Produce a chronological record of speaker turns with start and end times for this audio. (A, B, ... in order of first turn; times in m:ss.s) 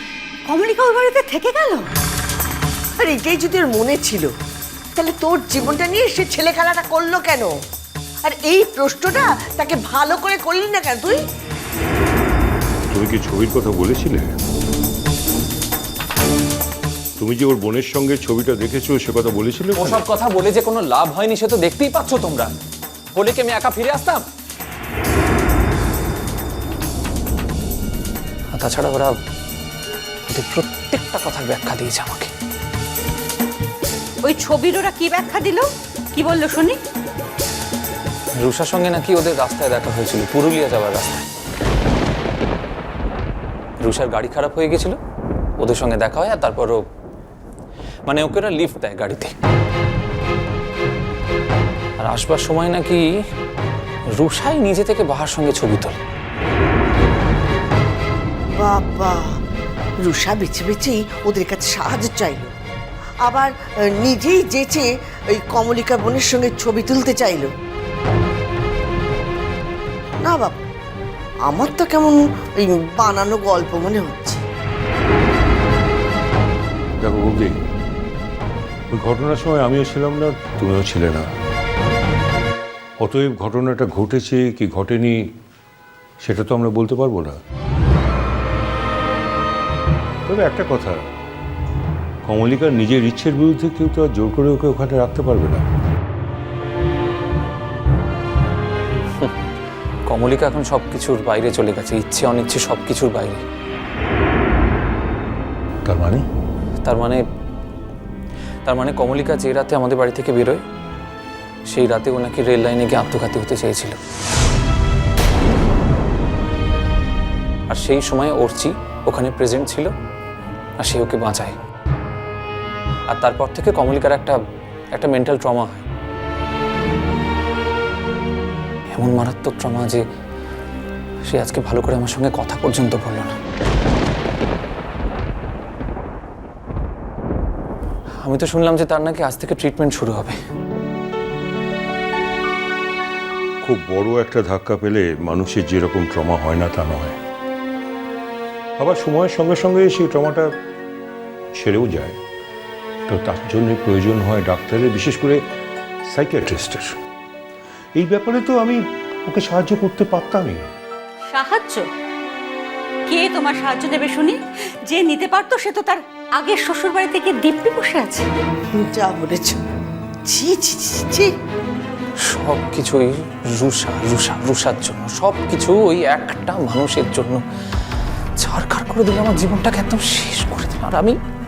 0:00.5-0:01.9 A
0:03.0-0:04.3 B
0:05.0-0:07.6 B
0:08.2-0:11.2 B
0:12.9-0:14.4 C
0:17.2-0:20.0 C
0:19.8-0:22.5 D
0:23.2-0:24.3 D
0:28.5-0:29.2 D
0:30.3-0:32.3 D
0:34.2-0:36.8 A
0:38.4-0:41.3 D
0:43.8-0:45.0 D
0:45.6-0:46.8 D
0:48.1-0:49.4 D
0:52.0-0:53.1 D
0:54.1-0:56.0 D
0:58.6-0:59.4 B
1:00.0-1:02.5 B
1:03.2-1:07.5 B
1:10.2-1:10.6 B
1:11.5-1:14.4 B
1:17.0-1:17.6 C
1:18.9-1:21.3 C
1:23.0-1:25.2 C
1:26.2-1:27.4 C
1:30.3-1:31.0 C
1:32.2-1:35.7 C
1:40.1-1:43.4 D
1:45.8-1:46.3 C
1:46.8-1:47.2 D
1:48.6-1:50.6 D
1:51.7-1:54.0 D
1:57.7-1:59.9 D
2:00.8-2:01.6 D
2:03.1-2:04.4 D
2:04.9-2:05.8 D
2:08.9-2:10.0 D
2:11.3-2:13.4 D
2:18.2-2:20.4 D
2:23.6-2:27.2 C
2:28.8-2:30.5 C
2:31.6-2:32.2 C
2:33.1-2:35.4 C
2:36.1-2:37.0 C
2:38.0-2:40.6 C
2:41.3-2:41.9 A
2:43.1-2:48.3 A
2:48.8-2:49.6 B
2:50.2-2:51.3 B
2:52.2-2:57.4 D
2:58.4-3:01.2 D